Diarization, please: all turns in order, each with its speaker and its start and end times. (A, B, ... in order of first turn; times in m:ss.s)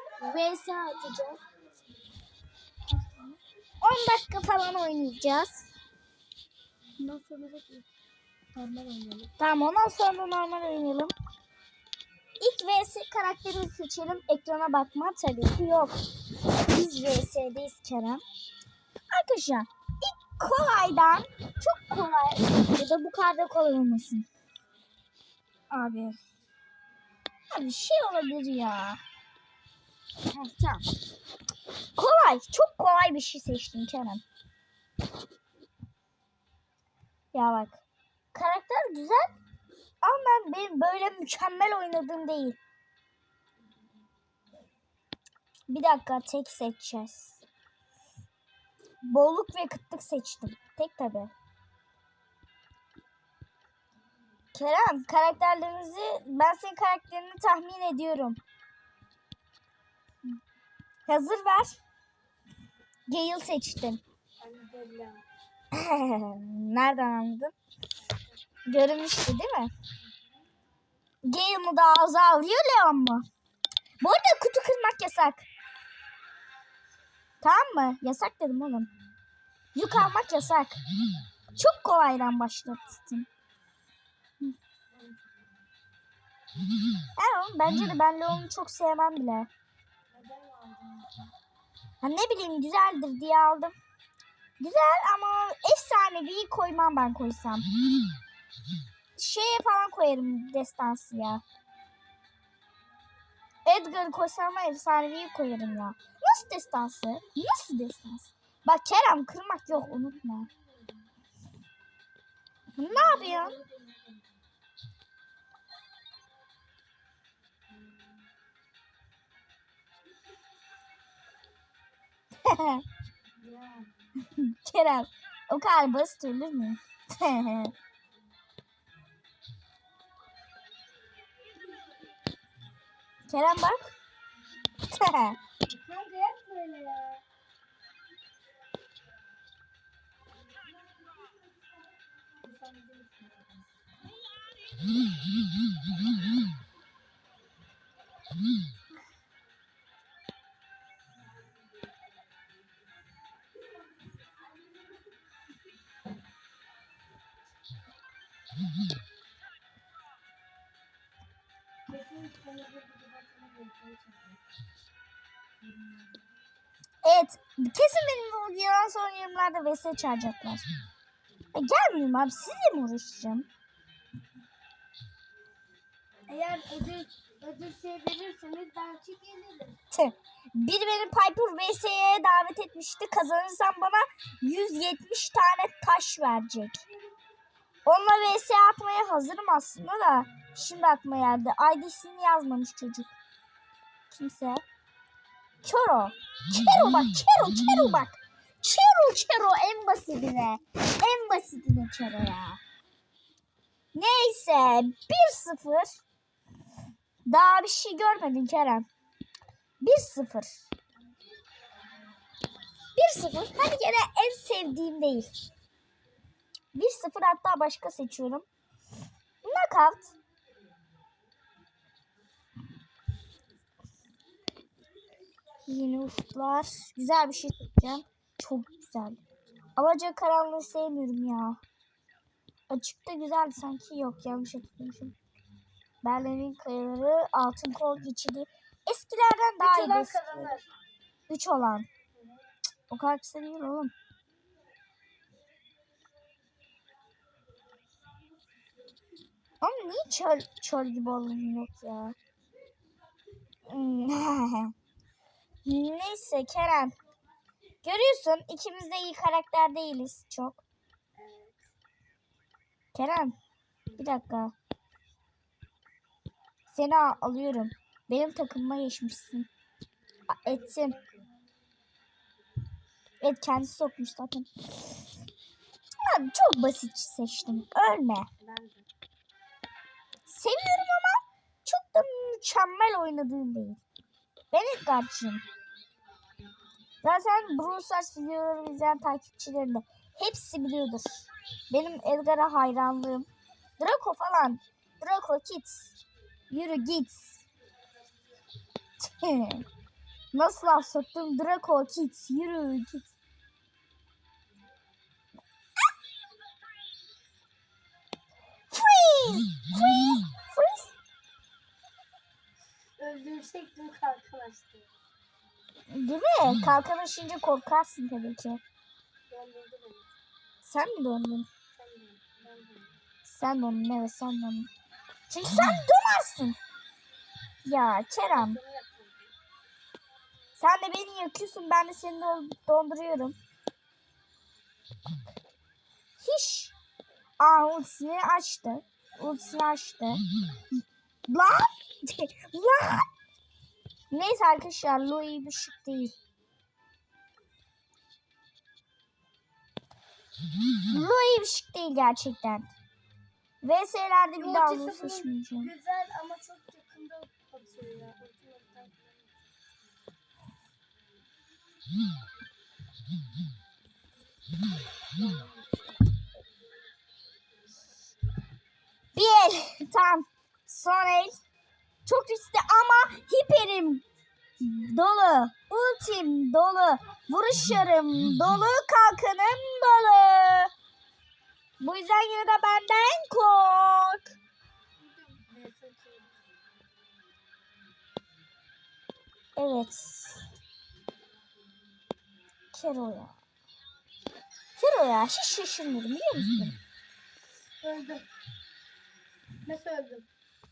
0:00.2-0:01.4 A
0:02.9-0:03.4 A
0:03.8-0:05.7 B
0:07.0-0:07.9 A
0:08.5-0:09.3 A
0:09.4-0:11.1 B
0:12.4-0:16.0 B
0:16.5-0:18.2 B
0:19.1-0:24.2 B
0:25.7-0:26.2 B
0:27.5-0:29.0 B
0:30.3-0:30.8 B
0:32.0-0:34.2 B
0:37.3-0:37.8 B
0:38.3-0:39.3 B
0:40.0-0:42.6 B
0:45.7-0:47.4 B
0:49.0-0:51.3 B
0:54.5-0:58.4 B
1:01.1-1:01.8 B
1:03.1-1:04.0 B
1:04.4-1:05.2 A
1:05.7-1:07.5 B
1:08.1-1:08.3 A
1:08.7-1:09.7 B
1:11.2-1:13.2 B
1:14.0-1:15.4 B
1:17.4-1:18.9 B
1:19.7-1:20.8 B
1:21.6-1:23.3 B
1:24.9-1:25.2 A
1:27.2-1:29.5 B
1:30.1-1:31.2 A
1:32.0-1:33.7 B
1:34.6-1:37.7 B
1:39.2-1:41.4 B
1:43.6-1:50.5 B
1:49.7-1:50.2 A
1:52.8-1:53.5 B
1:52.8-1:54.3 A
2:02.4-2:02.8 B
2:03.4-2:03.9 A
2:04.2-2:07.7 B
2:13.3-2:13.9 B
2:14.9-2:15.4 B
2:15.6-2:17.2 A
2:22.4-2:23.4 A
2:41.9-2:44.3 A
2:47.0-2:50.7 B
2:51.5-2:53.5 B
2:56.3-2:59.8 A
2:59.9-3:06.8 B
3:07.8-3:13.1 B
3:14.1-3:14.6 B
3:15.6-3:22.6 B
3:23.9-3:26.0 B
3:27.3-3:28.8 B
3:29.8-3:30.6 B
3:33.0-3:35.3 B
3:36.7-3:38.4 B
3:39.4-3:40.1 B
3:45.6-3:49.2 B
3:49.8-3:51.6 B
3:52.7-3:55.1 B
3:56.0-4:00.5 B
3:59.6-4:00.6 A
4:01.3-4:01.9 B
4:02.9-4:03.9 B
4:09.6-4:12.2 B
4:13.7-4:14.7 B
4:15.6-4:16.9 B
4:17.8-4:20.6 B
4:21.2-4:21.6 A
4:22.9-4:23.4 B
4:24.0-4:24.5 B
4:26.7-4:29.5 B
4:30.3-4:31.0 B
4:30.4-4:31.2 A
4:33.2-4:34.5 B
4:36.0-4:38.3 B
4:38.4-4:38.9 A
4:40.3-4:43.8 B
4:44.5-4:45.4 B
4:47.0-4:53.3 B
4:53.8-4:55.9 B
4:56.5-4:57.4 B
4:59.0-4:59.6 B
5:00.3-5:03.1 B
5:08.7-5:10.9 B
5:13.0-5:14.9 A
5:15.9-5:18.6 B
5:19.3-5:20.1 A
5:20.6-5:21.5 B
5:21.7-5:22.9 A
5:23.2-5:24.7 B
5:25.3-5:26.6 B
5:27.6-5:28.6 B
5:28.3-5:29.2 A
5:30.6-5:33.4 B
5:36.2-5:36.7 B
5:37.4-5:40.2 B
5:41.3-5:43.1 B
5:44.1-5:46.1 B
5:50.9-5:52.7 B
5:53.6-5:55.7 B
5:54.4-5:59.3 A
6:05.1-6:05.6 A
6:09.1-6:11.3 B
6:12.0-6:14.0 B
6:14.6-6:20.7 B
6:21.8-6:24.3 B
6:25.0-6:26.4 A
6:29.6-6:30.4 B
6:32.7-6:33.3 B
6:34.8-6:36.8 B
6:37.8-6:38.2 A
6:39.6-6:40.3 A